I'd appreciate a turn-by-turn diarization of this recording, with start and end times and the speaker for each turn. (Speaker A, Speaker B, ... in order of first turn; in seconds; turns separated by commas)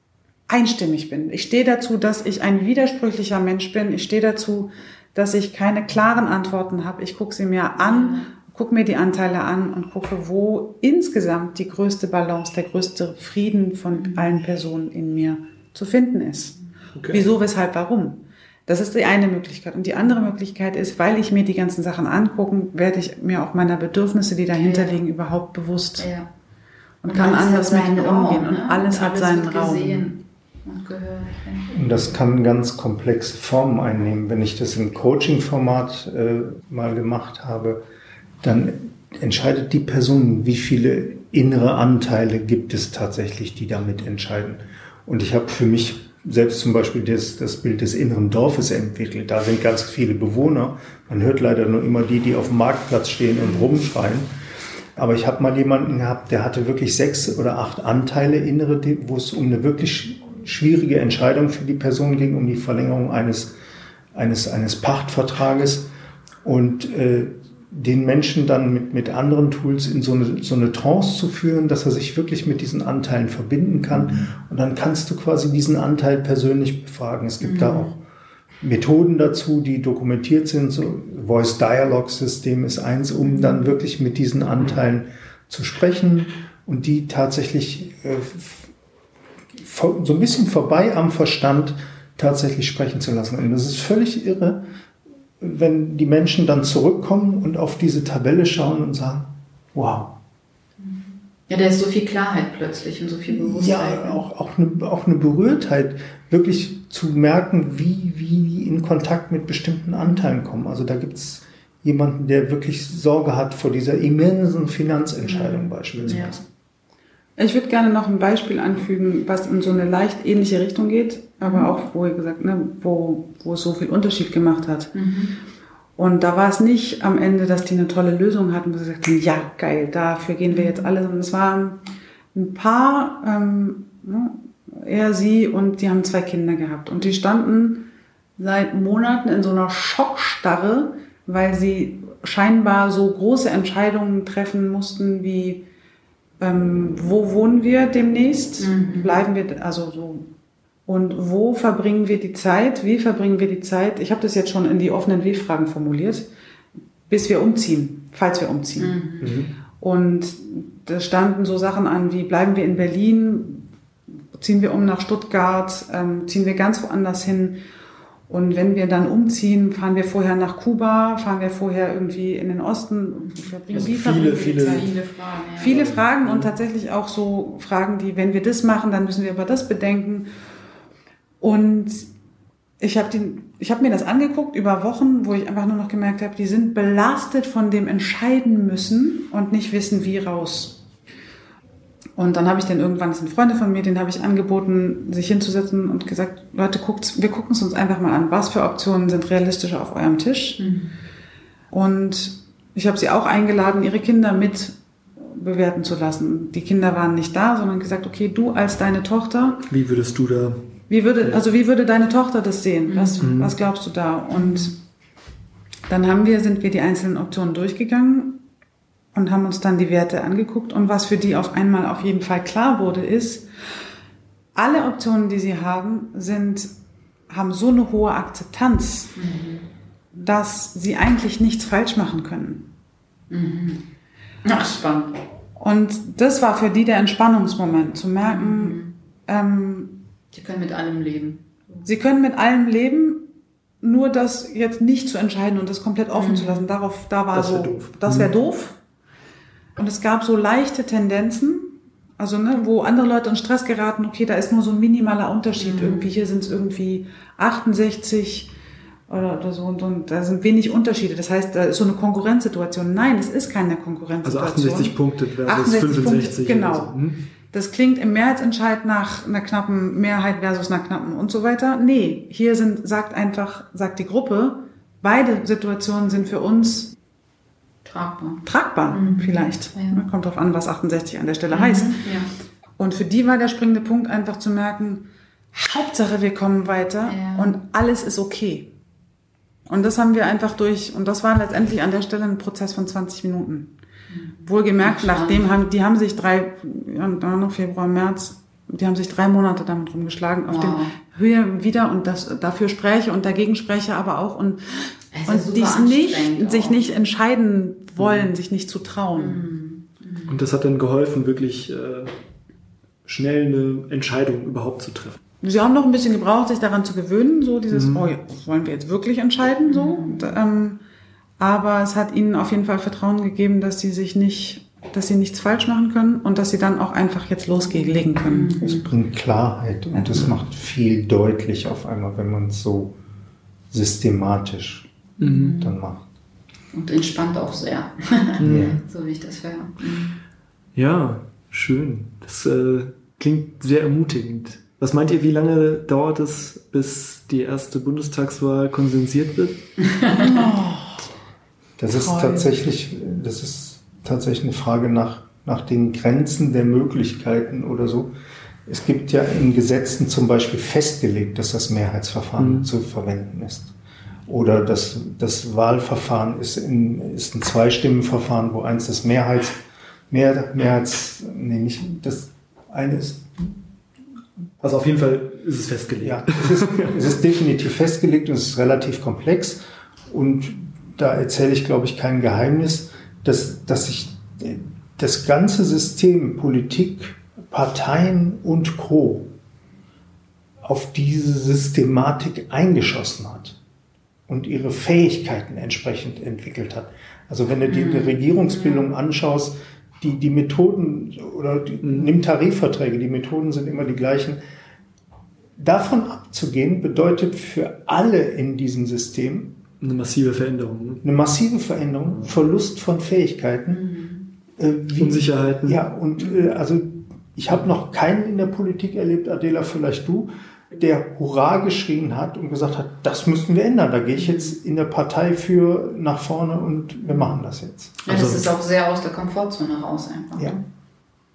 Speaker A: 0.5-16.6, Speaker B: 7.8-8.3, Speaker B: 13.9-14.3, Speaker C: 16.9-17.3, Speaker A: 17.1-26.1, Speaker B: 24.6-25.0, Speaker B: 26.0-26.3, Speaker A: 27.0-30.2, Speaker B: 27.1-31.7, Speaker D: 31.7-37.8, Speaker D: 38.4-54.3, Speaker D: 55.0-63.5, Speaker D: 64.1-65.9, Speaker D: 66.4-78.0, Speaker B: 77.4-77.9, Speaker D: 78.6-88.7, Speaker D: 89.5-94.7, Speaker D: 95.4-100.2, Speaker B: 100.8-104.2, Speaker D: 103.3-116.4, Speaker B: 115.2-116.4, Speaker C: 116.0-116.2, Speaker A: 117.4-125.0, Speaker B: 121.4-121.7, Speaker B: 124.9-125.4, Speaker A: 126.0-131.8, Speaker B: 130.5-130.9, Speaker A: 132.3-145.7, Speaker A: 146.4-150.3, Speaker B: 148.6-149.2, Speaker A: 150.9-156.3, Speaker A: 157.1-159.0, Speaker B: 158.8-159.4, Speaker C: 159.2-159.5, Speaker A: 159.8-163.7, Speaker A: 164.3-167.6, Speaker A: 168.3-174.9, Speaker C: 173.7-174.9, Speaker B: 174.6-175.8, Speaker A: 175.6-180.3, Speaker C: 175.7-176.5, Speaker A: 181.4-182.1, Speaker A: 182.8-190.8, Speaker A: 192.2-200.6, Speaker B: 200.6-200.9, Speaker A: 201.7-209.7, Speaker C: 209.7-211.4, Speaker A: 210.9-214.8, Speaker B: 212.9-213.3, Speaker C: 213.2-213.5, Speaker B: 214.4-214.7, Speaker A: 215.9-218.4, Speaker A: 219.1-223.5, Speaker A: 224.6-226.7, Speaker A: 227.3-229.2, Speaker B: 229.2-229.7, Speaker A: 230.1-232.7, Speaker B: 233.3-233.8, Speaker B: 234.4-235.2, Speaker A: 235.6-240.0, Speaker B: 238.2-238.9, Speaker B: 240.3-241.9, Speaker A: 241.8-243.3, Speaker A: 243.8-248.8, Speaker B: 246.2-246.7, Speaker C: 247.3-248.3, Speaker A: 249.8-258.5, Speaker B: 255.6-256.1, Speaker A: 259.1-267.0, Speaker C: 264.2-267.2, Speaker A: 267.5-276.9, Speaker B: 277.9-280.0, Speaker A: 278.4-282.0, Speaker B: 281.5-282.3, Speaker A: 282.8-288.7, Speaker B: 287.1-287.5, Speaker A: 289.7-293.7, Speaker B: 294.1-295.5, Speaker A: 294.4-309.4, Speaker B: 300.5-300.9, Speaker B: 305.1-306.9, Speaker C: 308.0-308.3, Speaker B: 309.1-310.4, Speaker C: 310.3-312.1, Speaker C: 313.1-315.2, Speaker A: 315.4-320.8, Speaker C: 317.7-318.1, Speaker B: 319.6-320.4, Speaker A: 321.4-328.6, Speaker B: 328.1-328.9, Speaker D: 328.6-332.9, Speaker A: 329.9-330.3, Speaker D: 333.7-334.9, Speaker B: 335.2-335.8, Speaker C: 335.2-335.6, Speaker D: 335.6-336.1, Speaker B: 336.7-340.2, Speaker C: 338.4-338.8, Speaker D: 338.4-338.8, Speaker C: 340.8-349.6, Speaker A: 350.1-351.1, Speaker D: 351.8-358.1, Speaker A: 351.9-352.6, Speaker D: 358.7-363.7, Speaker C: 362.4-362.7, Speaker D: 364.3-373.5, Speaker C: 374.6-377.0, Speaker D: 376.0-389.3, Speaker D: 390.6-393.6, Speaker D: 394.3-404.4, Speaker B: 397.6-398.9, Speaker C: 401.8-402.1, Speaker D: 405.6-409.6, Speaker C: 409.8-411.1, Speaker D: 411.0-413.9, Speaker B: 413.7-414.3, Speaker D: 414.6-427.9, Speaker C: 415.0-415.9, Speaker B: 424.2-424.5, Speaker B: 427.1-427.4, Speaker B: 428.0-430.6, Speaker C: 428.1-428.5